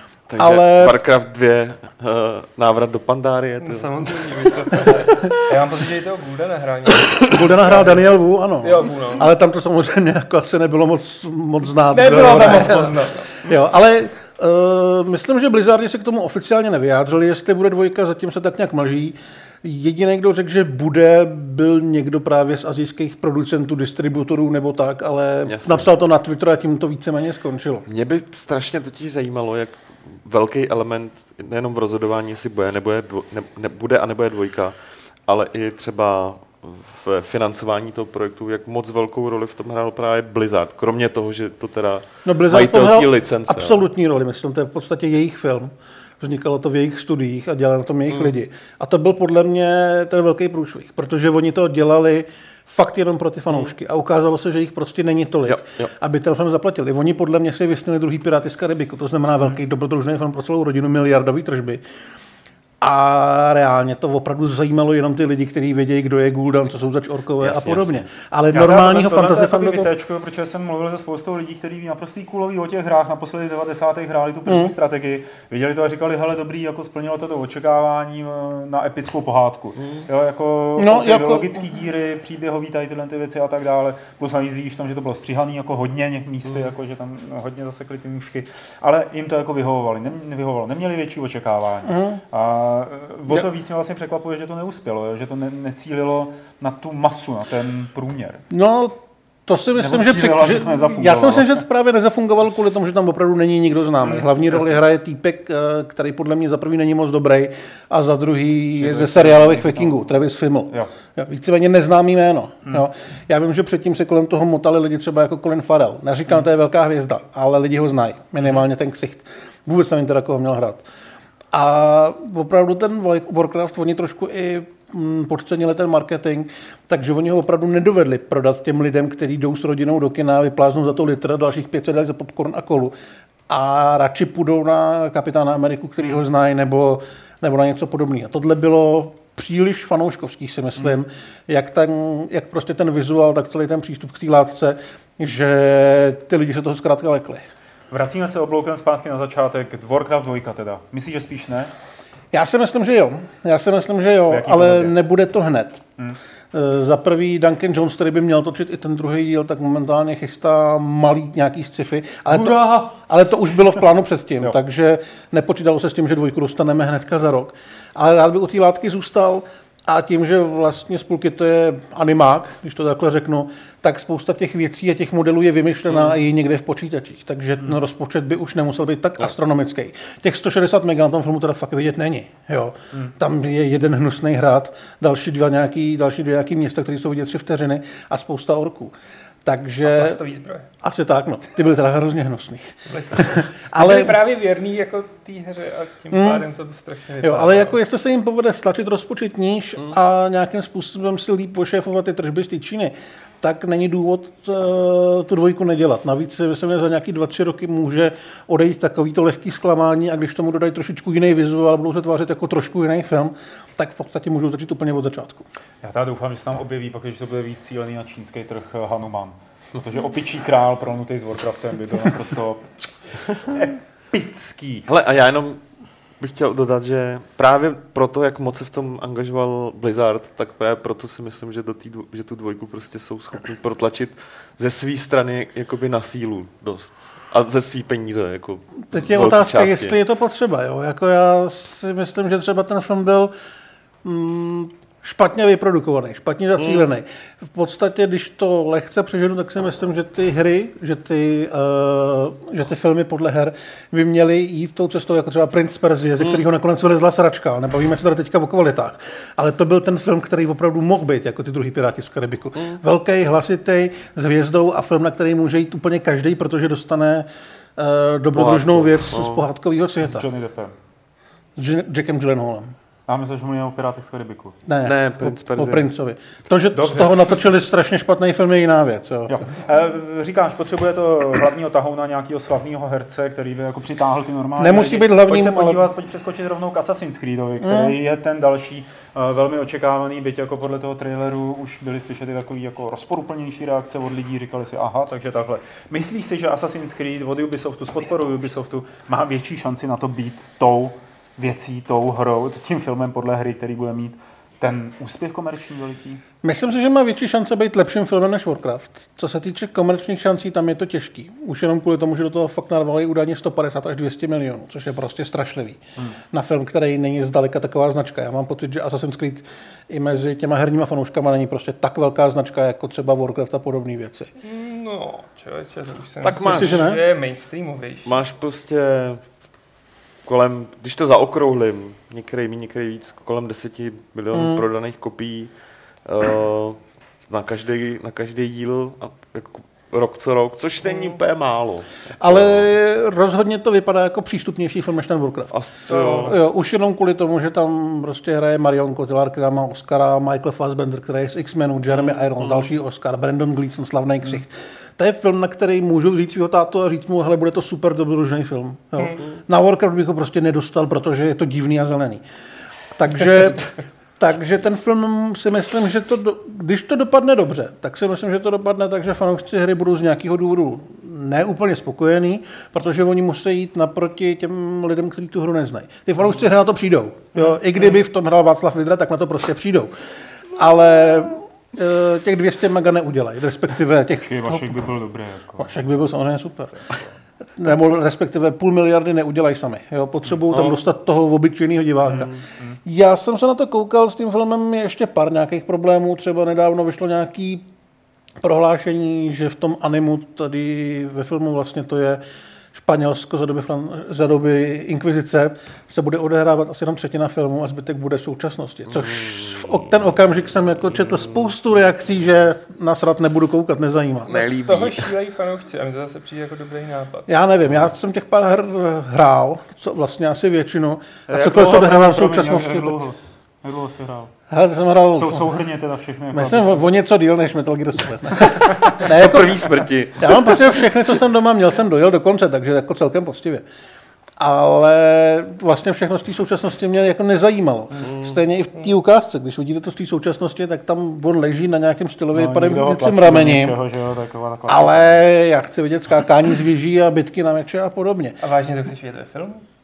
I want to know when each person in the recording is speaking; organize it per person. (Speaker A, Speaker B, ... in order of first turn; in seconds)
Speaker A: 0.3-5.4, 25.5-25.9, 27.9-34.8, 35.3-43.8, 55.5-55.9, 67.4-68.0, 79.8-80.1, 224.9-225.6, 226.2-240.0, 246.6-246.9, 268.3-269.5, 274.8-275.9, 326.2-326.9, 328.1-329.2, 330.2-335.5, 336.1-342.7, 345.5-346.4, 351.9-352.6, 408.9-410.0, 411.0-411.5, 414.3-415.1, 429.0-430.9, 438.0-438.4
Speaker B: 0.4-1.0, 7.2-27.9, 42.2-61.8, 62.8-69.9, 74.5-74.7, 80.8-81.6, 91.9-92.2, 98.5-120.8, 121.5-132.9, 133.5-147.4, 152.3-155.8, 156.5-188.9, 189.4-190.2, 190.8-194.2, 196.1-196.5, 197.2-215.5, 238.9-243.3, 244.0-270.3, 271.6-272.8, 274.7-279.5, 284.6-285.8, 287.6-287.9, 306.4-315.8, 316.3-324.3, 326.4-327.0, 334.3-334.6, 342.2-362.2, 362.9-384.9, 385.6-386.9, 387.6-392.3, 392.9-397.7, 398.4-402.2, 402.7-414.3, 417.3-423.0, 424.5-425.5, 426.3-433.6, 434.4-443.8, 444.7-448.4
Speaker C: 3.6-9.3, 11.9-13.3, 189.8-190.7, 192.9-197.8, 324.4-328.2, 340.9-341.2, 414.3-417.3, 448.4-449.6
Speaker D: 68.5-98.4, 99.8-101.6, 104.0-104.8, 108.8-110.1, 147.9-151.7, 154.3-154.9, 162.3-162.8, 215.8-224.9, 270.0-270.8, 273.1-274.6, 276.7-277.4, 279.3-306.2, 346.0-346.3, 384.2-385.8, 392.2-392.8, 421.3-424.3, 425.1-426.8, 428.7-429.0, 442.3-445.1